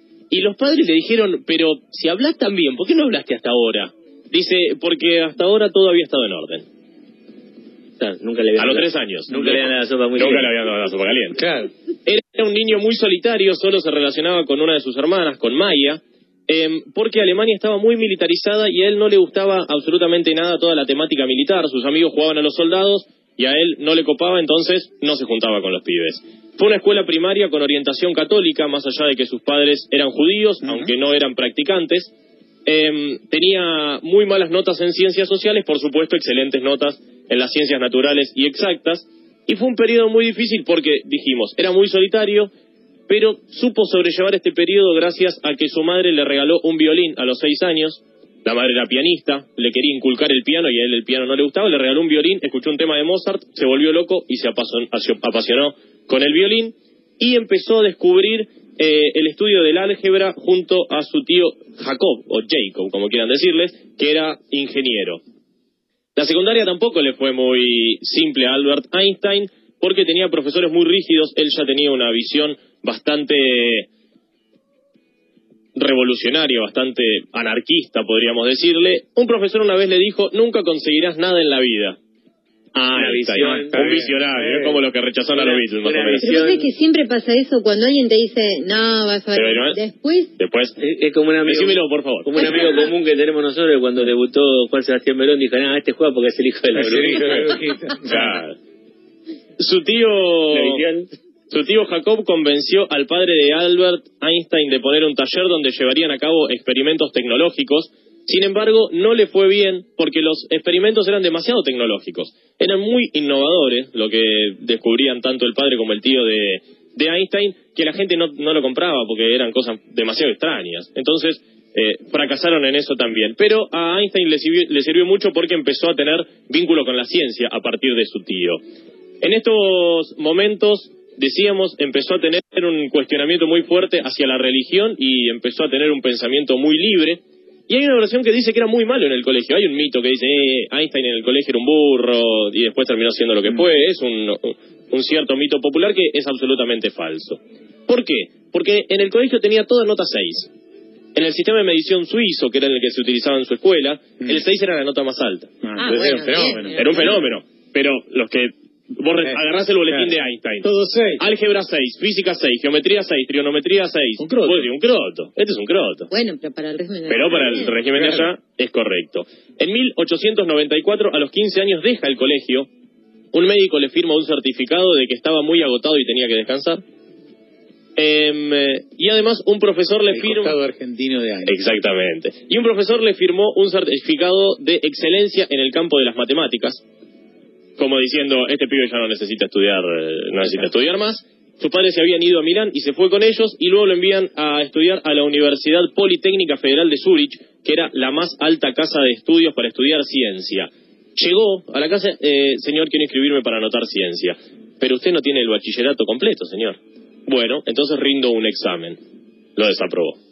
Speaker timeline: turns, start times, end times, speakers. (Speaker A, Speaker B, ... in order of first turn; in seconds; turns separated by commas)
Speaker A: 0.3-6.7, Speaker B: 8.0-10.5, Speaker A: 8.6-11.4, Speaker C: 11.3-11.7, Speaker A: 12.1-32.1, Speaker C: 30.6-30.9, Speaker A: 32.7-42.5, Speaker A: 43.1-65.2, Speaker A: 66.2-73.9, Speaker A: 75.8-82.0, Speaker A: 82.8-86.3, Speaker B: 83.0-84.8, Speaker C: 83.4-84.6, Speaker B: 85.3-86.7, Speaker D: 86.2-90.3, Speaker A: 89.3-89.8, Speaker A: 90.4-90.8, Speaker B: 90.8-97.5, Speaker A: 91.4-92.4, Speaker D: 92.4-92.8, Speaker C: 96.7-98.4, Speaker A: 98.1-98.6, Speaker A: 99.6-100.8, Speaker B: 100.5-101.1, Speaker A: 101.5-128.6, Speaker A: 129.2-150.5, Speaker A: 151.2-155.5, Speaker C: 155.6-156.9, Speaker D: 155.8-157.1, Speaker A: 156.7-166.1, Speaker C: 159.3-161.2, Speaker C: 164.2-164.7, Speaker D: 166.1-167.8, Speaker A: 167.1-172.7, Speaker C: 168.0-168.3, Speaker A: 173.3-176.8, Speaker A: 178.0-180.6, Speaker C: 180.1-181.6, Speaker A: 181.5-186.8, Speaker A: 187.8-209.0, Speaker A: 209.6-210.2